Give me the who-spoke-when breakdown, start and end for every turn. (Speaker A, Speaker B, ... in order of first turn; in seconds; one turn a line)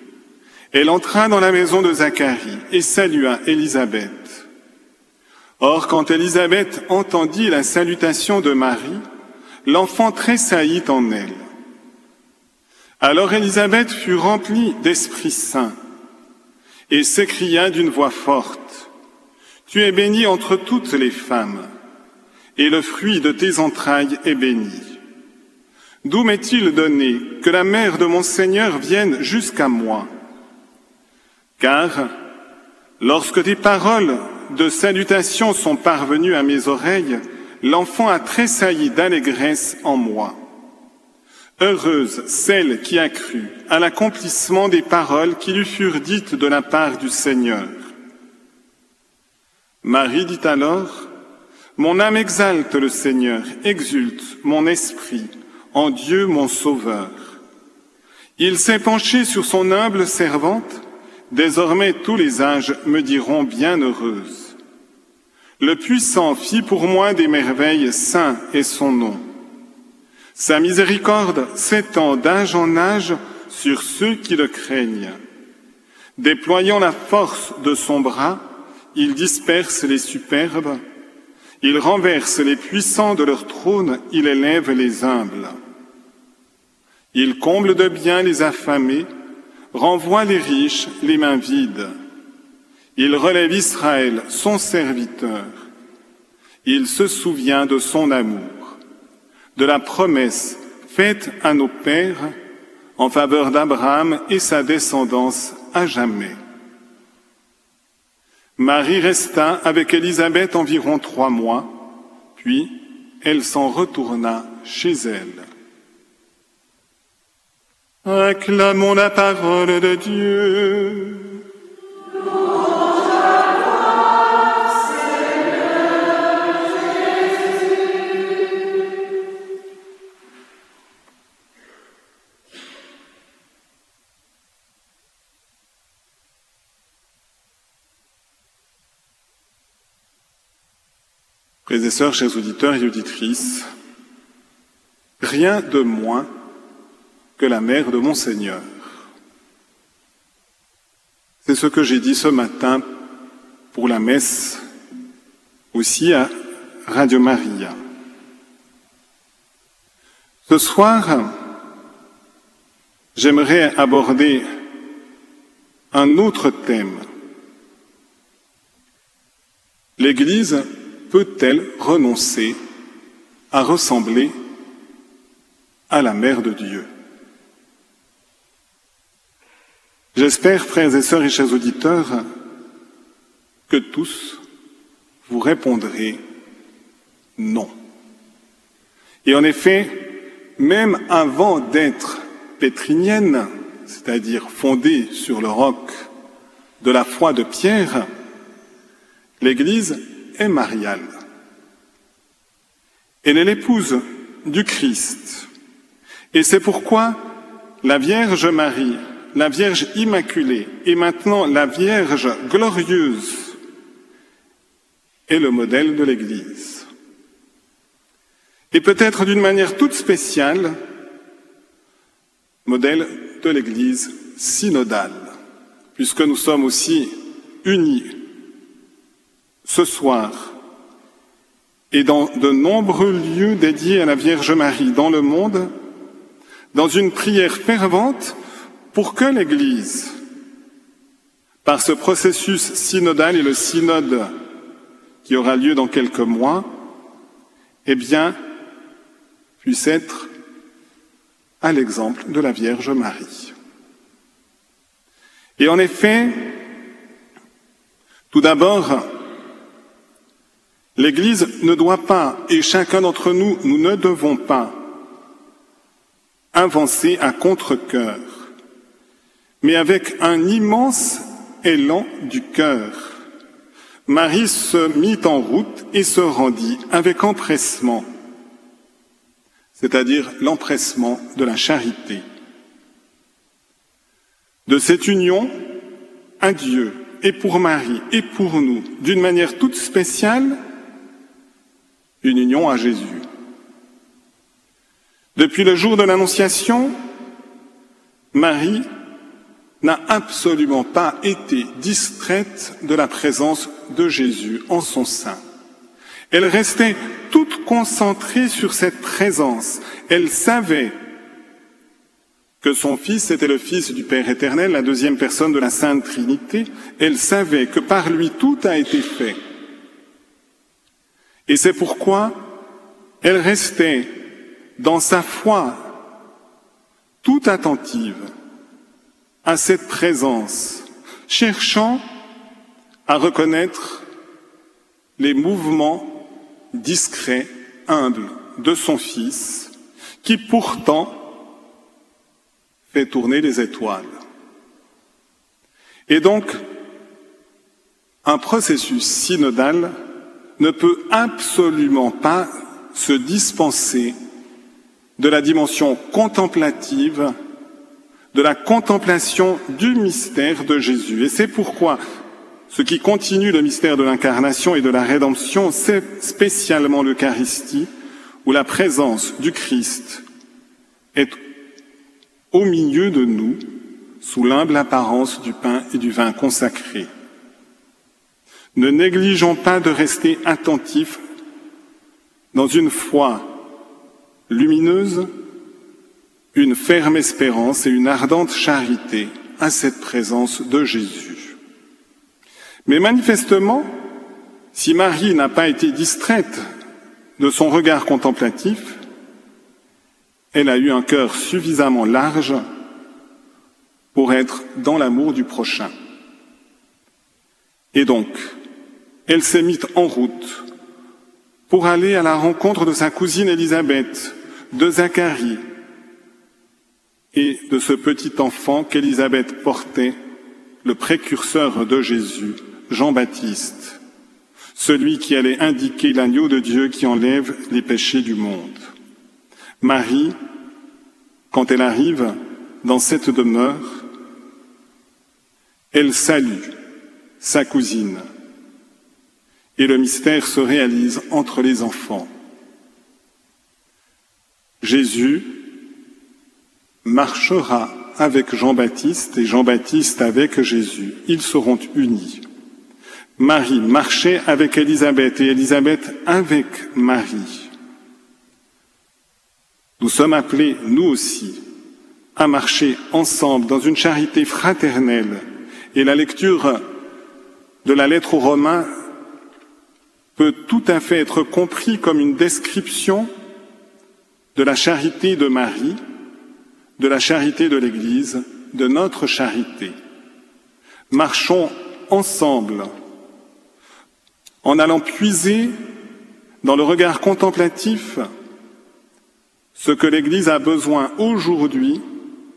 Speaker A: 0.7-4.4
Speaker A: 5.6-9.0
Speaker A: 9.6-11.4
Speaker A: 13.0-15.7
Speaker A: 16.9-18.9
Speaker A: 19.7-21.7
Speaker A: 22.6-25.0
Speaker A: 26.0-30.1
Speaker A: 31.6-32.1
Speaker A: 33.0-40.4
Speaker A: 41.6-47.8
Speaker A: 49.8-51.1
Speaker A: 51.8-57.4
Speaker A: 58.4-64.5
Speaker A: 65.6-69.2
Speaker A: 70.3-75.2
Speaker A: 76.2-80.8
Speaker A: 81.6-85.5
Speaker A: 87.1-89.1
Speaker A: 89.7-91.9
Speaker A: 93.0-95.6
Speaker A: 96.6-98.8
Speaker A: 99.5-102.3
Speaker A: 103.0-106.3
Speaker A: 108.6-115.4
Speaker A: 118.0-121.4
Speaker A: 141.7-143.6
Speaker A: 145.2-146.3
Speaker A: 147.4-148.7
Speaker A: 151.4-152.8
Speaker A: 153.7-154.6
Speaker A: 155.7-156.3
Speaker A: 156.9-157.8
Speaker A: 160.5-161.4
Speaker A: 163.1-164.4
Speaker A: 165.9-167.0
Speaker A: 170.0-172.5
Speaker A: 173.5-174.3
Speaker A: 175.9-176.9
Speaker A: 180.1-182.2
Speaker A: 183.7-184.4
Speaker A: 185.3-186.2
Speaker A: 187.4-187.7
Speaker A: 189.2-196.1
Speaker A: 196.8-198.1
Speaker A: 199.4-201.1
Speaker A: 203.2-205.5
Speaker A: 206.3-207.3
Speaker A: 207.8-213.6
Speaker A: 215.3-216.8
Speaker A: 218.7-220.7
Speaker A: 222.6-225.3
Speaker A: 225.9-228.2
Speaker A: 229.6-230.6
Speaker A: 231.9-235.7
Speaker A: 236.7-238.4
Speaker A: 238.9-240.2
Speaker A: 241.6-244.3
Speaker A: 245.2-246.9
Speaker A: 247.8-248.3
Speaker A: 249.6-250.3
Speaker A: 251.6-253.5
Speaker A: 255.6-256.6
Speaker A: 258.3-259.2
Speaker A: 261.0-264.9
Speaker A: 266.5-268.5
Speaker A: 269.6-273.1
Speaker A: 274.1-278.1
Speaker A: 279.8-282.2
Speaker A: 284.6-285.5
Speaker A: 286.4-290.6
Speaker A: 292.2-293.2
Speaker A: 295.4-296.9
Speaker A: 298.3-298.9
Speaker A: 299.8-305.4
Speaker A: 306.3-310.9
Speaker A: 312.6-319.4
Speaker A: 321.5-322.6
Speaker A: 323.2-324.2
Speaker A: 324.8-326.0
Speaker A: 327.2-328.3
Speaker A: 329.4-332.0
Speaker A: 333.1-334.0
Speaker A: 335.2-339.7
Speaker A: 340.2-341.4
Speaker A: 342.9-344.1
Speaker A: 346.1-346.6
Speaker A: 348.2-349.9
Speaker A: 350.6-354.1
Speaker A: 355.2-357.3
Speaker A: 358.3-362.0
Speaker A: 362.7-367.9
Speaker A: 368.4-370.2
Speaker A: 371.1-371.4
Speaker A: 372.5-377.1
Speaker A: 378.7-381.2
Speaker A: 382.5-383.7
Speaker A: 384.5-385.3
Speaker A: 386.5-391.6
Speaker A: 392.9-393.9
Speaker A: 394.7-396.6
Speaker A: 397.4-399.0
Speaker A: 400.5-402.6
Speaker A: 404.1-405.9
Speaker A: 407.9-408.5
Speaker A: 409.3-410.7
Speaker A: 411.7-415.6
Speaker A: 417.3-420.1
Speaker A: 420.8-424.0
Speaker A: 424.7-428.9
Speaker A: 429.8-430.3
Speaker A: 431.5-434.1
Speaker A: 435.9-436.7
Speaker A: 437.4-438.2
Speaker A: 439.8-442.3
Speaker A: 444.8-445.8
Speaker A: 447.0-452.4
Speaker A: 453.4-457.7
Speaker A: 460.0-461.6
Speaker A: 462.4-465.4
Speaker A: 465.9-466.9
Speaker A: 467.8-468.9
Speaker A: 470.4-473.3
Speaker A: 474.5-476.0
Speaker A: 477.0-479.9
Speaker A: 481.1-482.9
Speaker A: 484.6-485.7
Speaker A: 486.6-488.2
Speaker A: 489.7-492.0